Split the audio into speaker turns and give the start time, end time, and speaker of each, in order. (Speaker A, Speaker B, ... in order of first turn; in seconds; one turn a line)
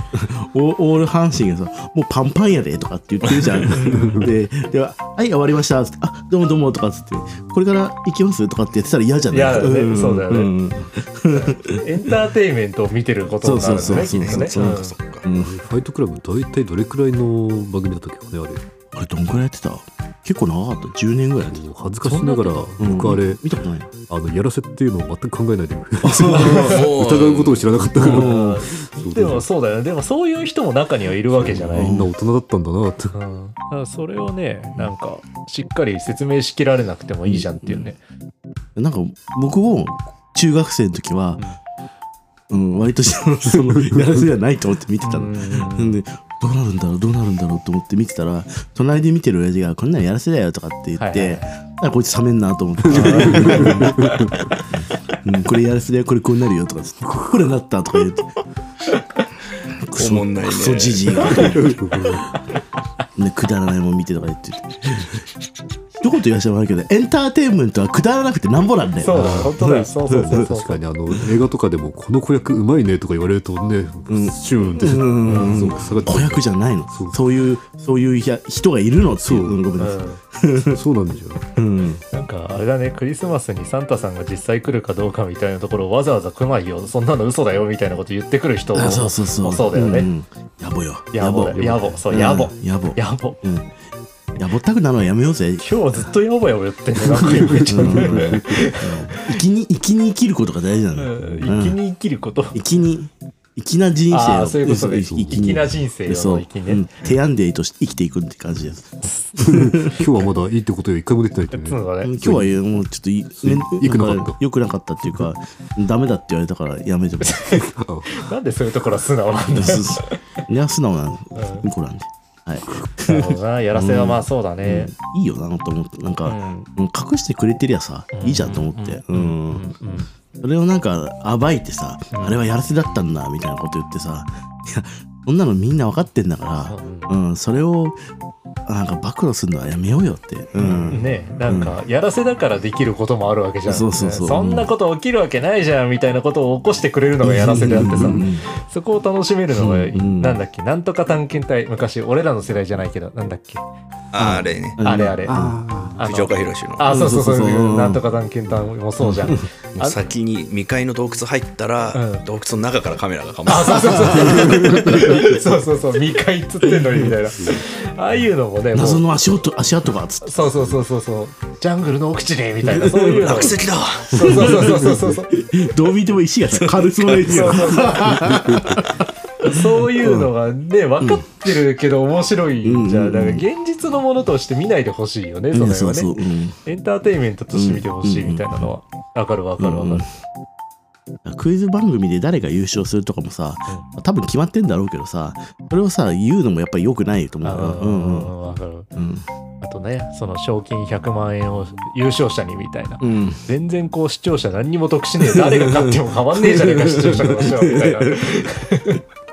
Speaker A: 0.1-11.8
Speaker B: 3.2-3.8
Speaker C: 3.7-4.3
Speaker D: 4.0-4.3
Speaker C: 9.3-10.5
Speaker C: 11.3-14.9
Speaker A: 13.4-15.6
Speaker B: 13.6-15.2
Speaker D: 15.3-18.6
Speaker A: 18.9-21.6
Speaker D: 21.5-23.4
Speaker C: 22.0-22.8
Speaker A: 22.8-23.9
Speaker D: 24.1-29.5
Speaker A: 26.0-26.9
Speaker C: 26.3-26.8
Speaker B: 26.4-27.7
Speaker A: 27.9-28.6
Speaker C: 28.0-31.9
Speaker D: 31.3-33.2
Speaker A: 31.7-32.1
Speaker C: 33.1-38.0
Speaker A: 37.3-37.9
Speaker A: 38.8-41.4
Speaker A: 42.5-54.0
Speaker D: 43.8-44.0
Speaker C: 45.0-46.0
Speaker C: 51.0-51.5
Speaker D: 52.9-54.5
Speaker C: 52.9-54.1
Speaker A: 54.7-58.3
Speaker A: 59.7-61.8
Speaker B: 60.0-61.4
Speaker C: 61.2-61.6
Speaker D: 61.4-62.4
Speaker A: 63.2-65.2
Speaker A: 66.0-70.5
Speaker C: 69.0-70.8
Speaker D: 69.1-69.5
Speaker D: 70.2-77.2
Speaker A: 74.1-80.8
Speaker C: 75.2-75.7
Speaker D: 79.2-79.6
Speaker C: 79.8-80.2
Speaker D: 80.7-81.4
Speaker A: 81.5-82.0
Speaker C: 82.1-90.1
Speaker A: 88.7-93.7
Speaker C: 91.1-93.4
Speaker A: 94.4-95.7
Speaker C: 95.6-99.4
Speaker A: 97.3-101.8
Speaker D: 97.3-98.6
Speaker C: 101.0-102.6
Speaker A: 102.5-110.0
Speaker C: 104.1-106.9
Speaker D: 105.1-105.5
Speaker C: 109.0-109.3
Speaker D: 109.4-112.5
Speaker C: 111.5-112.1
Speaker A: 112.0-117.6
Speaker D: 113.4-114.4
Speaker C: 117.2-120.2
Speaker D: 117.7-118.1
Speaker A: 119.5-129.7
Speaker C: 121.3-121.7
Speaker C: 123.0-124.9
Speaker C: 126.2-126.7
Speaker C: 128.1-130.1
Speaker A: 130.4-138.0
Speaker C: 132.1-132.4
Speaker C: 136.7-137.2
Speaker A: 138.7-141.8
Speaker C: 140.6-153.6
Speaker A: 143.7-144.7
Speaker A: 147.2-148.5
Speaker A: 149.6-150.4
Speaker B: 154.1-154.8
Speaker A: 154.2-155.9
Speaker C: 154.8-155.4
Speaker D: 155.3-156.0
Speaker C: 156.0-160.0
Speaker B: 156.0-156.9
Speaker A: 156.9-158.0
Speaker A: 159.0-159.4
Speaker B: 159.8-164.6
Speaker C: 161.9-162.2
Speaker C: 163.5-169.1
Speaker A: 163.9-165.4
Speaker D: 164.4-164.8
Speaker A: 166.8-167.2
Speaker A: 168.7-170.8
Speaker C: 170.2-175.3
Speaker A: 172.6-173.5
Speaker B: 173.1-174.3
Speaker A: 174.1-180.3
Speaker C: 177.1-178.2
Speaker D: 178.1-178.8
Speaker C: 179.4-186.1
Speaker A: 181.0-181.3
Speaker A: 182.6-183.4
Speaker A: 185.5-186.6
Speaker C: 186.7-190.1
Speaker A: 187.5-188.7
Speaker A: 189.6-190.1
Speaker A: 191.2-198.3
Speaker C: 197.4-198.9
Speaker A: 198.9-199.3
Speaker C: 199.6-209.0
Speaker A: 203.0-203.4
Speaker A: 205.3-208.5